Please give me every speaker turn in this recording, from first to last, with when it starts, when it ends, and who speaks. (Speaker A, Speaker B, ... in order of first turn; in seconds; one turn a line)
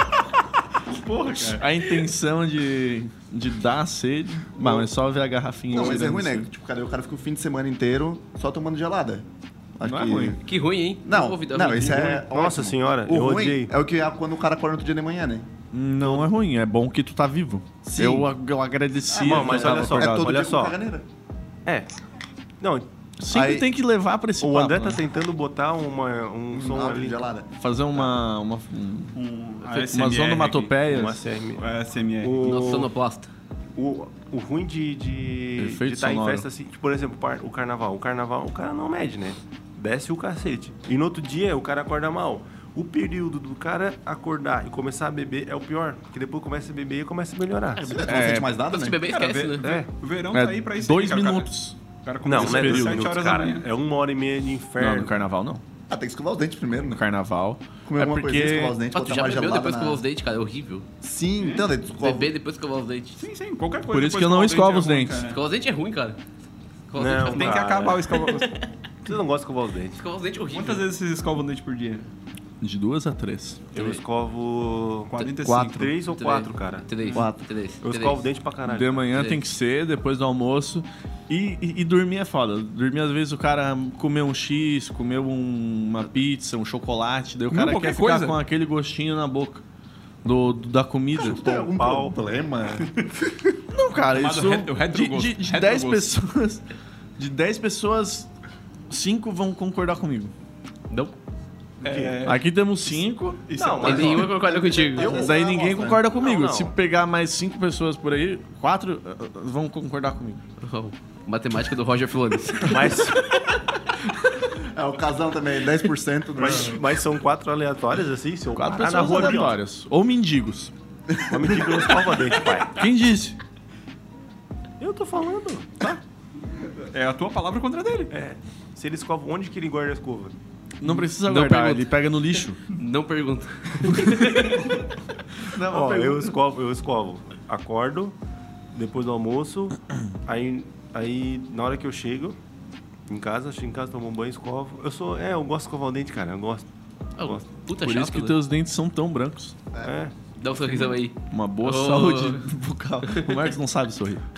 Speaker A: 0.9-6.5
Speaker B: 1.3-1.6
Speaker C: 4.6-4.9
Speaker C: 5.7-10.4
Speaker A: 9.8-10.4
Speaker D: 10.4-12.2
Speaker C: 11.1-15.5
Speaker E: 11.7-13.7
Speaker A: 15.7-20.3
Speaker E: 16.0-16.3
Speaker C: 18.0-18.2
Speaker C: 19.1-21.1
Speaker E: 19.2-20.8
Speaker E: 22.6-22.9
Speaker A: 23.2-25.0
Speaker C: 23.3-23.7
Speaker E: 24.4-27.2
Speaker C: 26.5-27.5
Speaker A: 27.6-29.2
Speaker B: 29.1-30.8
Speaker A: 29.8-31.2
Speaker E: 30.9-31.7
Speaker B: 31.6-32.4
Speaker E: 32.2-32.9
Speaker D: 32.4-33.3
Speaker E: 33.8-48.0
Speaker A: 35.6-36.5
Speaker C: 47.7-49.0
Speaker D: 47.9-49.7
Speaker A: 48.0-48.6
Speaker B: 49.1-53.7
Speaker E: 49.6-49.9
Speaker A: 50.3-53.2
Speaker E: 52.2-55.1
Speaker A: 54.8-55.6
Speaker C: 55.9-57.0
Speaker A: 56.9-58.9
Speaker C: 57.9-60.0
Speaker D: 58.9-60.9
Speaker C: 61.0-62.3
Speaker B: 61.4-61.7
Speaker D: 62.0-63.2
Speaker B: 63.2-65.4
Speaker A: 63.9-65.3
Speaker D: 65.3-66.2
Speaker D: 66.9-68.7
Speaker E: 67.0-68.1
Speaker B: 67.2-68.6
Speaker E: 69.0-70.0
Speaker D: 70.0-70.9
Speaker B: 70.5-72.1
Speaker A: 72.6-73.7
Speaker E: 73.7-76.9
Speaker D: 73.8-74.0
Speaker B: 75.1-76.0
Speaker D: 76.1-78.2
Speaker B: 77.0-77.3
Speaker C: 77.1-77.4
Speaker E: 77.8-79.1
Speaker A: 78.7-89.6
Speaker D: 79.1-79.4
Speaker B: 87.5-88.4
Speaker A: 90.2-91.5
Speaker C: 91.2-92.9
Speaker E: 91.3-92.2
Speaker A: 93.7-96.6
Speaker B: 94.2-96.1
Speaker A: 97.2-98.3
Speaker A: 98.9-100.3
Speaker D: 100.9-101.2
Speaker B: 101.8-103.0
Speaker E: 101.8-102.3
Speaker A: 102.2-103.4
Speaker B: 103.5-104.4
Speaker E: 103.6-105.4
Speaker D: 103.8-105.2
Speaker C: 104.8-106.1
Speaker A: 105.1-110.4
Speaker E: 106.1-106.8
Speaker D: 110.6-113.6
Speaker E: 112.6-113.2
Speaker C: 114.7-116.8
Speaker E: 116.4-119.6
Speaker A: 118.5-120.7
Speaker E: 121.3-122.8
Speaker A: 122.6-123.4
Speaker E: 124.8-125.7
Speaker B: 126.9-128.1
Speaker E: 128.1-130.3
Speaker A: 130.8-132.6
Speaker D: 131.2-131.9
Speaker D: 132.7-134.8
Speaker A: 135.4-136.4
Speaker E: 135.7-138.2
Speaker E: 138.7-142.4
Speaker E: 143.1-146.7
Speaker E: 147.2-147.4
Speaker D: 147.2-148.4
Speaker A: 147.8-149.6
Speaker E: 149.8-150.1
Speaker D: 150.4-152.5
Speaker A: 151.3-154.2
Speaker D: 153.1-153.4